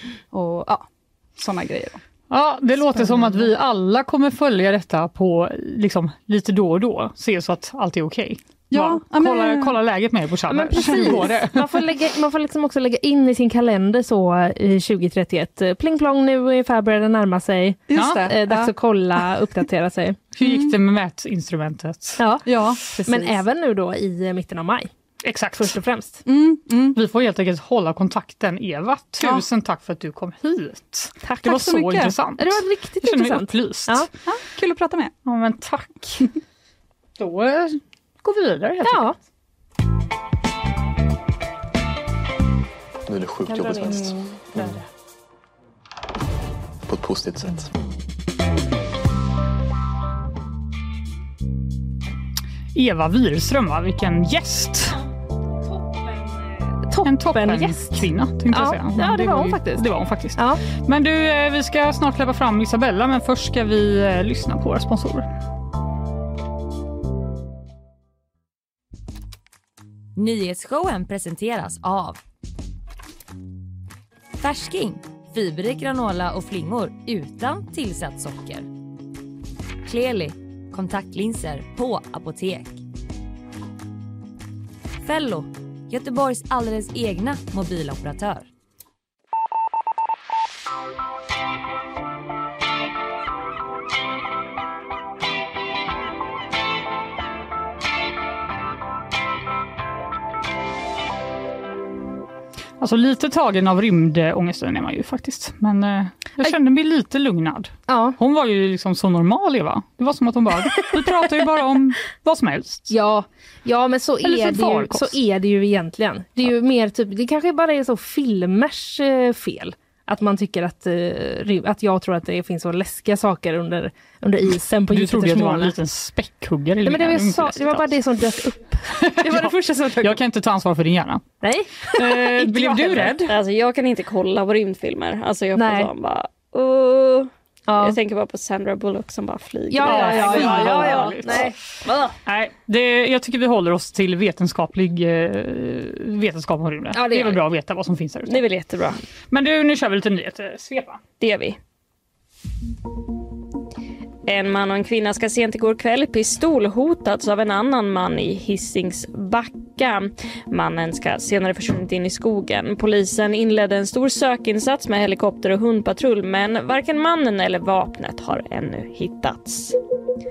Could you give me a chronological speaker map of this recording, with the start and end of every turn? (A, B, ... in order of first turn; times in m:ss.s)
0:00.3-0:02.0 A
0:02.3-0:11.8 B
0:08.7-0:09.8 A
0:10.5-0:20.2 C
0:10.8-0:11.4 A
0:17.9-0:18.7 A
0:18.0-0:18.2 B
0:20.4-0:22.2 B
0:20.4-0:20.7 A
0:22.2-0:22.4 C
0:22.4-0:23.4 A
0:23.0-0:24.9 C
0:25.2-0:25.8 B
0:25.6-0:26.2 C
0:26.3-0:27.0 A
0:26.9-0:34.1 B
0:29.2-0:29.4 A
0:31.2-0:31.7 C
0:31.5-0:32.2 A
0:32.4-0:34.1 C
0:34.4-0:35.2 A
0:35.2-0:36.3 B
0:37.2-0:39.1 B
0:38.9-0:39.2 C
0:43.1-0:44.8 D
0:43.4-0:44.2 C
0:43.6-0:44.8 B
0:46.9-0:47.7 D
0:52.7-0:55.0 B
0:55.7-1:00.6 C
0:57.0-1:05.3 B
1:10.2-1:12.2 E
1:14.4-1:18.7 E
1:19.9-1:22.8 E
1:25.0-1:28.5 E
1:42.8-1:52.9 B
1:47.9-1:48.2 C
1:52.9-2:05.8 C
1:54.2-1:55.2 B
2:04.9-2:08.0 B
2:06.8-2:10.2 C
2:09.0-2:11.4 B
2:11.4-2:13.2 C
2:11.9-2:13.4 B
2:13.3-2:21.5 F
2:15.6-2:15.9 C
2:17.7-2:18.0 C
2:19.7-2:22.1 C
2:19.8-2:21.5 B
2:22.3-2:28.4 B
2:26.9-2:27.4 C
2:28.3-2:29.0 F
2:29.3-2:31.0 B
2:31.2-2:31.6 F
2:34.3-2:49.8 F